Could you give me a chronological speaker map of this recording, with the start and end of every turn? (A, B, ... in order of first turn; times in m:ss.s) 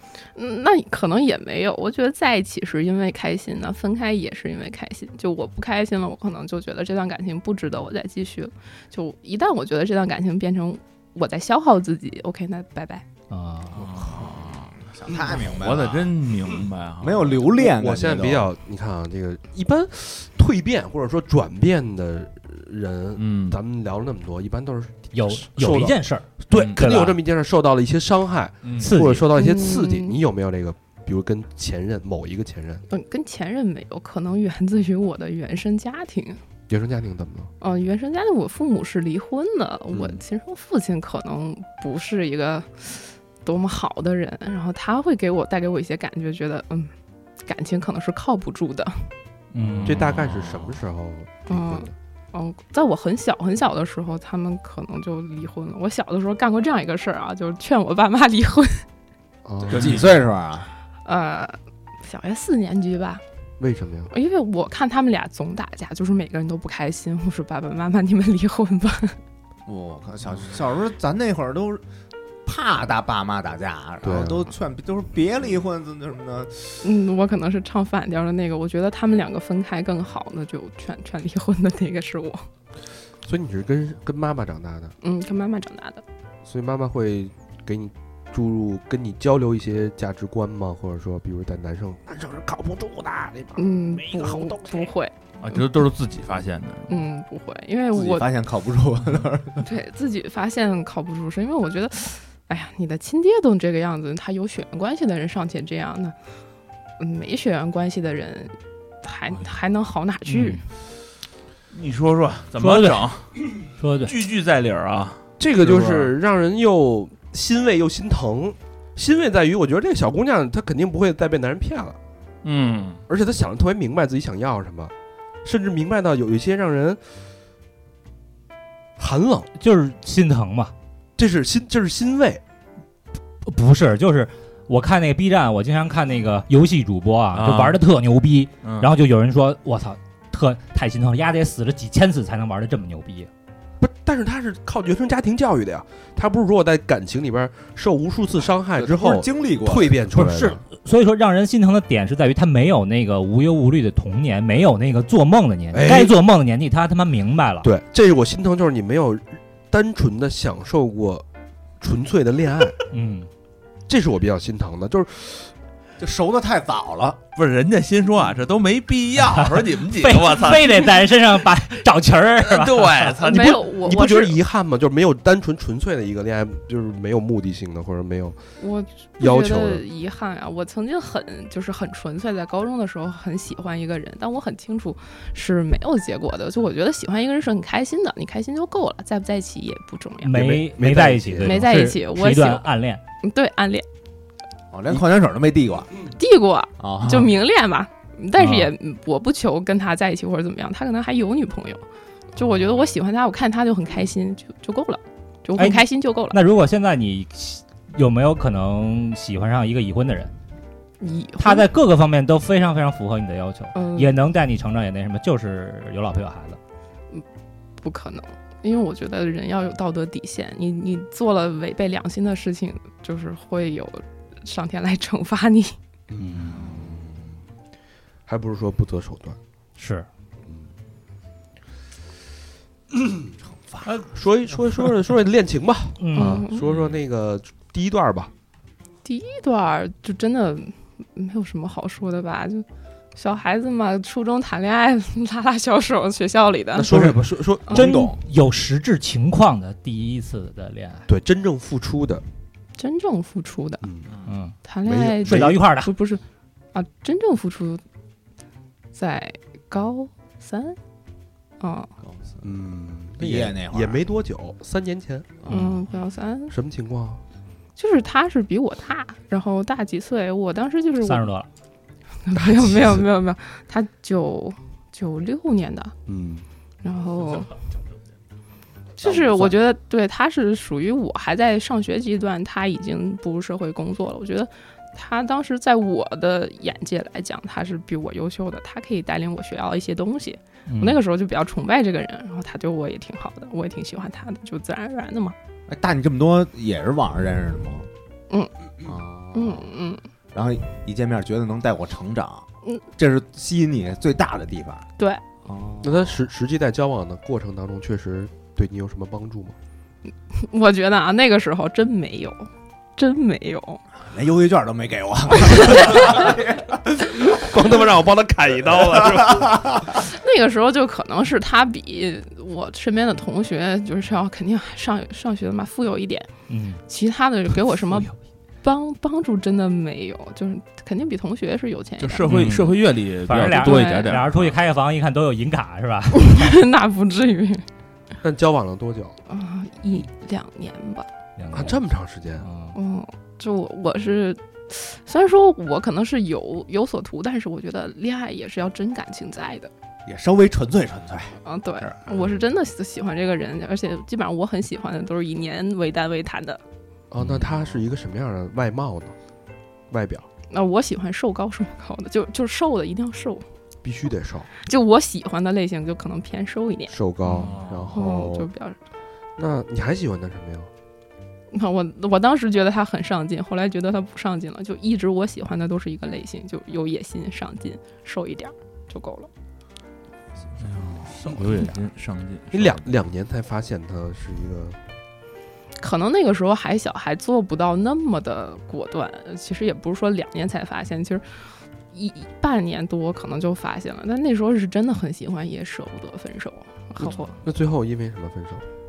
0:00.4-0:13.0 A
0:13.3-0:13.9 B
0:13.7-0:17.4 C
0:14.9-0:16.1 D
0:17.0-0:18.5 D
0:17.5-0:32.8 E
0:23.2-0:23.6 C
0:25.1-0:27.2 B
0:26.5-0:26.8 C
0:28.6-0:28.9 C
0:28.8-0:29.3 B
0:29.3-0:30.2 A
0:32.9-0:36.4 A
0:36.7-0:37.5 E
0:37.6-0:49.1 A
0:39.9-0:40.2 E
0:49.5-0:50.1 B
0:49.8-0:50.6 C
0:49.8-0:51.9 E
0:51.5-0:58.8 A
0:59.4-1:00.1 E
0:59.7-1:00.2 C
0:59.7-1:00.7 D
1:01.0-1:03.2 A
1:03.6-1:04.1 E
1:04.1-1:09.2 A
1:09.7-1:11.8 D
1:12.4-1:16.8 D
1:14.0-1:14.5 E
1:16.8-1:22.4 A
1:23.2-1:24.9 E
1:25.0-1:26.0 A
1:26.4-1:34.9 E
1:33.6-1:35.6 A
1:35.4-1:37.0 C
1:36.9-1:38.3 A
1:37.9-1:39.6 D
1:39.6-1:46.2 A
1:47.0-1:50.6 A
1:50.3-1:50.6 B
1:51.7-1:56.1 C
1:52.6-1:53.1 B
1:53.8-1:54.2 B
1:55.4-2:02.0 E
2:02.4-2:03.0 C
2:03.1-2:04.9 E
2:05.4-2:07.0 E
2:09.0-2:09.5 E
2:09.6-2:10.7 B
2:11.2-2:12.4 E
2:13.4-2:23.3 B
2:17.3-2:17.8 C
2:18.6-2:18.9 C
2:23.8-2:30.6 E
2:28.8-2:30.0 D
2:30.1-2:37.7 B
2:35.7-2:36.1 E
2:37.6-2:41.2 E
2:41.8-2:42.8 E
2:42.9-2:43.3 B
2:43.9-2:45.5 E
2:46.0-2:47.2 D
2:47.4-2:50.9 C
2:49.4-2:53.2 B
2:52.4-2:53.6 C
2:53.2-2:54.4 A
2:53.3-2:58.4 E
2:58.6-3:10.3 A
2:59.2-2:59.8 E
3:10.2-3:13.0 B
3:10.3-3:11.6 E
3:11.4-3:12.7 A
3:13.2-3:13.8 A
3:14.7-3:15.9 D
3:16.2-3:21.8 A
3:16.8-3:17.3 D
3:18.4-3:18.7 B
3:22.4-3:26.4 A
3:25.6-3:30.3 B
3:31.0-3:31.6 A
3:31.4-3:36.6 B
3:33.7-3:34.2 A
3:37.8-3:45.7 A
3:46.1-3:47.3 E
3:46.2-3:46.7 B
3:48.3-3:49.4 E
3:49.8-3:50.1 B
3:53.7-3:54.0 D
3:53.9-3:58.3 E
3:56.0-3:56.4 B
3:56.1-3:56.6 A
3:56.6-3:57.0 C
3:59.0-4:06.9 A
4:06.7-4:07.9 E
4:07.7-4:11.0 B
4:07.7-4:08.2 D
4:11.1-4:12.2 E
4:12.8-4:13.9 A
4:13.8-4:14.1 E
4:14.2-4:14.5 B
4:14.6-4:16.2 A
4:14.8-4:15.6 E
4:15.2-4:15.9 B
4:16.7-4:17.8 A
4:18.9-4:20.8 A
4:21.6-4:21.9 A
4:22.0-4:22.4 D
4:22.4-4:25.4 E
4:23.2-4:24.0 D
4:25.5-4:26.5 A
4:25.5-4:25.8 B
4:26.5-4:27.2 E
4:27.8-4:31.3 A
4:31.0-4:31.5 B
4:32.2-4:35.9 A
4:36.0-4:36.4 E
4:36.8-4:37.5 A
4:39.0-4:55.4 A
4:39.0-4:39.5 D
4:50.7-4:51.0 B
4:55.7-4:57.9 D
4:58.8-4:59.7 D
4:59.3-5:00.0 A
5:00.3-5:04.9 D
5:05.4-5:06.2 D
5:05.8-5:09.6 E
5:10.3-5:13.8 A
5:13.9-5:16.8 D
5:17.0-5:19.7 E
5:19.2-5:19.8 D
5:20.0-5:26.3 A
5:26.5-5:26.8 B
5:26.9-5:28.1 A
5:28.6-5:32.3 A
5:32.0-5:34.6 C
5:32.3-5:36.5 B
5:33.5-5:34.1 A
5:36.1-5:37.6 A
5:38.2-5:39.2 E
5:39.3-5:41.1 A
5:41.4-5:41.8 B
5:41.5-5:42.4 E
5:42.4-5:42.8 B
5:42.7-5:49.7 A
5:50.0-5:52.0 D
5:51.4-5:56.6 A
5:57.1-5:59.2 E
5:57.2-5:57.5 C
5:59.9-6:00.3 E
6:00.5-6:03.4 A
6:03.8-6:04.5 E
6:04.6-6:06.9 A
6:06.9-6:08.5 E
6:07.2-6:07.9 C
6:07.9-6:08.8 A
6:09.4-6:10.7 E
6:11.5-6:19.3 A
6:20.6-6:22.9 C
6:22.5-6:24.8 E
6:25.8-6:37.3 A
6:37.0-6:38.6 E